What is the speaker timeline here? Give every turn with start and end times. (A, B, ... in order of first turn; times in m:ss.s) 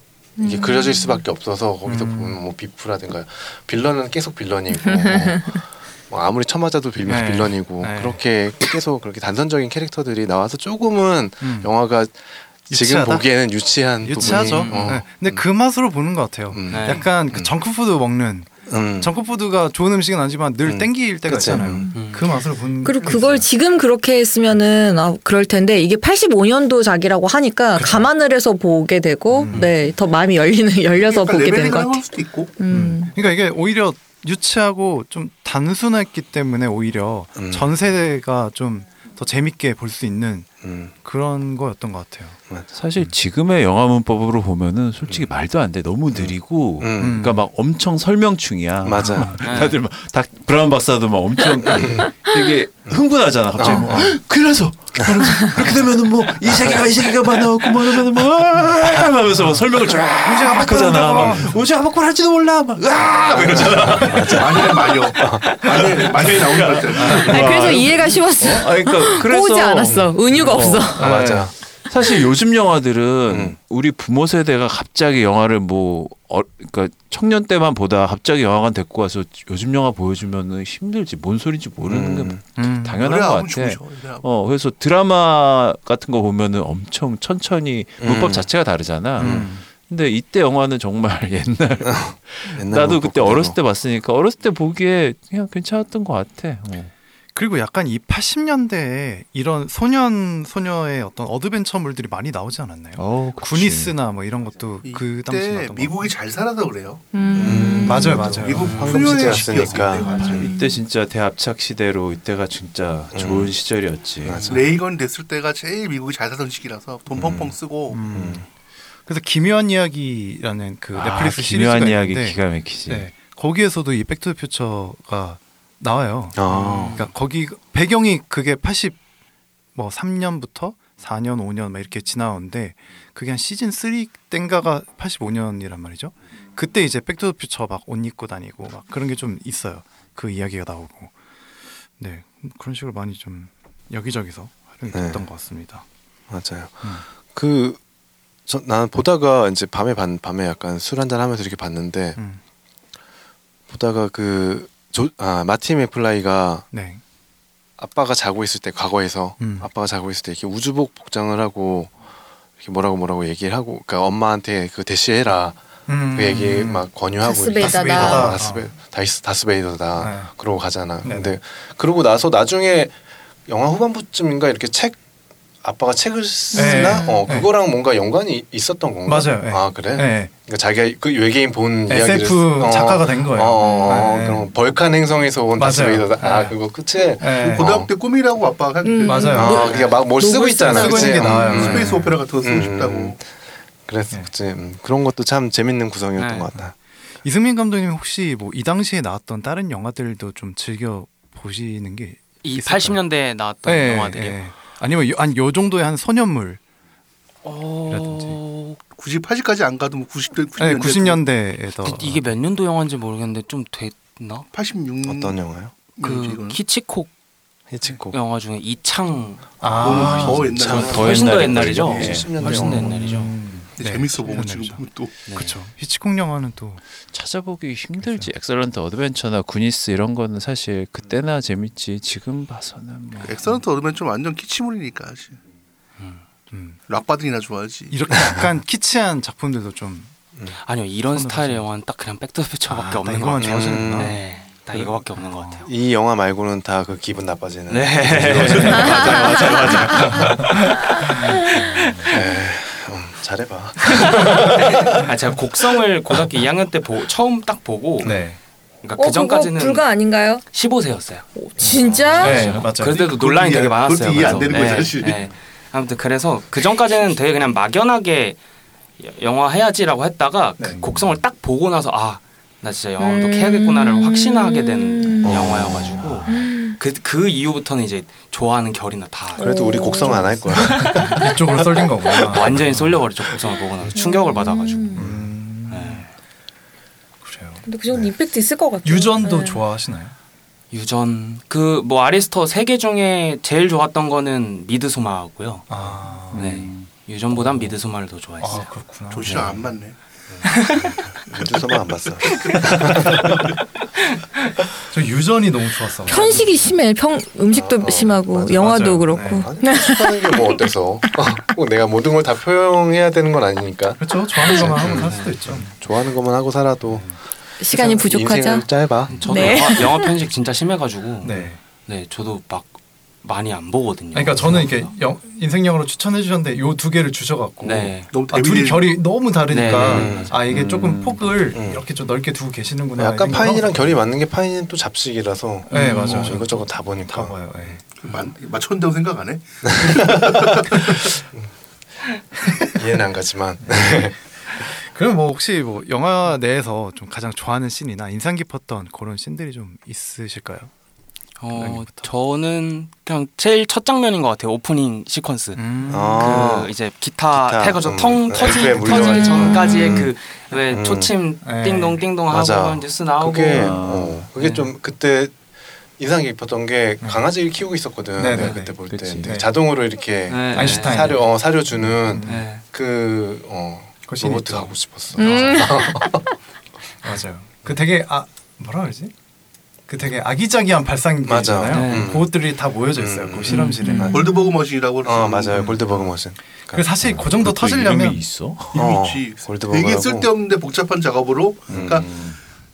0:00.4-0:01.2 A
0:00.4-0:15.4 B
0:01.8-0:02.4 C
0:04.9-0:05.6 A
0:07.0-0:08.2 C
0:11.4-0:11.7 C
0:12.7-0:13.3 C
0:14.0-0:23.5 C
0:14.2-0:15.0 D
0:16.5-0:17.5 B
0:16.7-0:17.1 D
0:18.7-0:19.1 B
0:20.6-0:21.9 B
0:22.0-0:22.3 D
0:22.8-0:33.1 A
0:27.8-0:28.1 C
0:29.3-0:29.7 C
0:31.0-0:32.6 E
0:32.7-0:40.5 C
0:37.4-0:37.7 B
0:40.6-0:40.9 B
0:41.0-0:42.4 C
0:42.7-1:11.3 F
0:46.1-0:47.2 B
0:47.0-0:47.4 C
0:48.8-0:49.5 B
0:49.0-0:49.4 C
0:49.4-0:49.8 D
0:51.7-0:52.1 B
0:53.6-0:54.1 B
0:53.7-0:54.1 C
0:59.3-1:01.6 C
1:03.3-1:05.5 B
1:04.2-1:07.7 E
1:07.0-1:07.3 C
1:07.2-1:11.1 A
1:09.8-1:11.5 B
1:11.0-1:11.5 C
1:11.9-1:36.9 F
1:13.3-1:13.6 B
1:21.8-1:22.4 B
1:22.6-1:23.0 C
1:23.0-1:24.3 E
1:28.0-1:28.5 B
1:29.2-1:29.5 B
1:29.2-1:29.6 C
1:31.8-1:33.6 B
1:37.4-1:46.1 C
1:43.0-1:44.0 F
1:44.8-1:47.0 E
1:47.1-1:48.2 A
1:47.4-1:50.5 B
1:47.8-1:50.5 E
1:47.8-1:49.5 C
1:50.1-1:50.8 A
1:50.2-1:54.5 F
1:53.1-1:53.6 B
1:54.2-1:54.6 B
1:54.4-1:58.0 E
1:57.2-1:57.6 B
1:57.9-1:58.5 C
1:58.1-1:58.4 B
1:59.1-2:09.0 C
2:00.9-2:03.1 F
2:06.4-2:07.0 B
2:06.5-2:07.1 D
2:09.8-2:21.1 C
2:22.0-2:25.8 C
2:24.9-2:25.2 B
2:26.3-2:27.8 B
2:28.5-2:32.2 B
2:33.7-2:36.7 B
2:36.7-2:37.0 C
2:37.8-2:41.9 B
2:39.4-2:39.7 C
2:42.6-2:45.6 B
2:45.9-2:46.9 C
2:46.1-2:53.0 B
2:47.2-2:48.4 A
2:47.6-2:48.7 C
2:50.0-2:50.3 C
2:51.0-2:51.4 C
2:53.5-2:55.0 B
2:55.6-3:07.9 B
2:56.5-2:57.2 A
2:56.5-2:57.5 C
2:59.1-3:00.3 C
3:01.9-3:04.5 C
3:03.6-3:04.0 A
3:05.6-3:06.6 C
3:07.2-3:07.7 C
3:07.3-3:10.0 E
3:08.8-3:11.6 A
3:09.0-3:09.7 C
3:09.3-3:13.3 B
3:10.5-3:12.2 C
3:10.7-3:13.2 E
3:13.9-3:16.7 B
3:16.2-3:16.5 D
3:17.2-3:23.0 C
3:22.4-3:24.4 D
3:23.6-3:26.6 C
3:27.4-3:28.8 D
3:27.9-3:28.4 C
3:28.9-3:31.2 E
3:30.6-3:32.3 C
3:31.8-3:34.5 D
3:34.5-3:35.4 E
3:35.0-3:35.7 B
3:36.0-3:36.6 E
3:36.0-3:37.1 D
3:37.7-3:38.2 B
3:38.1-3:43.3 D
3:39.6-3:40.5 C
3:39.8-3:41.4 E
3:40.2-3:42.4 F
3:40.5-3:42.9 B
3:42.4-3:46.8 C
3:43.8-3:45.2 E
3:45.3-3:45.6 D
3:47.1-3:53.3 F
3:48.0-3:48.3 C
3:53.1-3:53.6 C
3:53.2-3:55.4 E
3:56.5-3:56.8 C
3:56.9-3:58.0 E
3:57.9-4:00.1 C
4:00.6-4:05.7 D
4:01.1-4:01.6 C
4:02.7-4:04.2 C
4:03.4-4:04.2 B
4:05.2-4:05.6 C
4:05.6-4:10.6 B
4:07.7-4:12.1 D
4:08.2-4:10.3 F
4:08.8-4:10.1 A
4:10.0-4:10.5 C
4:11.0-4:11.6 A
4:11.0-4:12.1 C
4:12.1-4:15.1 B
4:14.0-4:18.2 D
4:18.0-4:18.4 C
4:18.8-4:19.9 D
4:19.0-4:20.4 A
4:20.5-4:28.4 D
4:21.4-4:22.6 A
4:22.2-4:23.1 C
4:22.9-4:25.3 E
4:24.5-4:24.8 C
4:29.0-4:41.3 D
4:30.6-4:31.0 C
4:33.0-4:35.4 A
4:35.2-4:36.2 B
4:36.0-4:36.3 C
4:36.3-4:36.8 A
4:39.4-4:40.8 A
4:39.4-4:41.3 B
4:40.8-4:43.0 C
4:42.1-4:45.1 D
4:43.9-4:45.1 A
4:45.0-4:46.1 C
4:45.7-4:46.1 D
4:47.2-4:47.6 C
4:47.7-4:49.6 A
4:48.8-4:50.1 C
4:50.7-4:55.7 D
4:55.7-4:56.7 C
4:56.3-4:56.9 F
4:56.3-4:58.7 D
4:57.3-4:57.7 C
4:58.4-4:59.7 C
4:59.1-5:00.0 E
5:00.3-5:03.5 B
5:00.4-5:01.0 D
5:02.2-5:03.4 D
5:04.9-5:06.4 C
5:06.1-5:10.6 A
5:07.5-5:19.7 B
5:08.6-5:09.5 C
5:14.0-5:15.7 C
5:14.8-5:15.3 D
5:16.9-5:17.2 C
5:17.6-5:18.7 A
5:19.1-5:24.9 D
5:19.2-5:20.1 A
5:21.2-5:21.6 C
5:24.1-5:34.0 C
5:27.6-5:28.1 D
5:28.1-5:29.0 E
5:29.5-5:30.4 D
5:29.8-5:30.3 B
5:30.5-5:31.3 F
5:31.6-5:31.8 B
5:33.0-5:37.4 B
5:35.7-5:37.8 C
5:35.7-5:36.4 D
5:38.0-5:41.0 E
5:39.7-5:40.8 B
5:42.4-5:42.8 C
5:42.7-5:44.2 B
5:43.6-5:44.1 C
5:44.7-5:50.7 C
5:51.4-6:03.8 D
5:51.5-5:52.1 C
5:55.6-5:56.5 C
5:55.9-5:56.7 B
5:57.3-6:00.1 B
5:58.5-5:59.9 A
5:58.9-5:59.3 C
6:00.7-6:01.1 B
6:01.4-6:02.0 C
6:02.3-6:05.4 B
6:03.5-6:04.2 F
6:04.4-6:04.7 D
6:06.0-6:16.3 B
6:08.2-6:09.5 C
6:08.9-6:09.3 F
6:10.3-6:11.2 D
6:10.5-6:11.2 C
6:11.8-6:12.4 C
6:12.3-6:12.6 D
6:14.1-6:15.7 C
6:15.2-6:16.2 A
6:17.0-6:19.1 C
6:19.9-6:24.2 C
6:21.2-6:22.4 B
6:21.7-6:22.1 D
6:22.9-6:23.6 B
6:23.5-6:24.1 D
6:24.0-6:25.8 E
6:24.1-6:24.5 A
6:25.0-6:26.9 B
6:26.7-6:28.2 C
6:27.0-6:29.0 F
6:28.7-6:32.1 E
6:28.8-6:30.3 B
6:31.7-6:32.1 B
6:31.7-6:32.4 F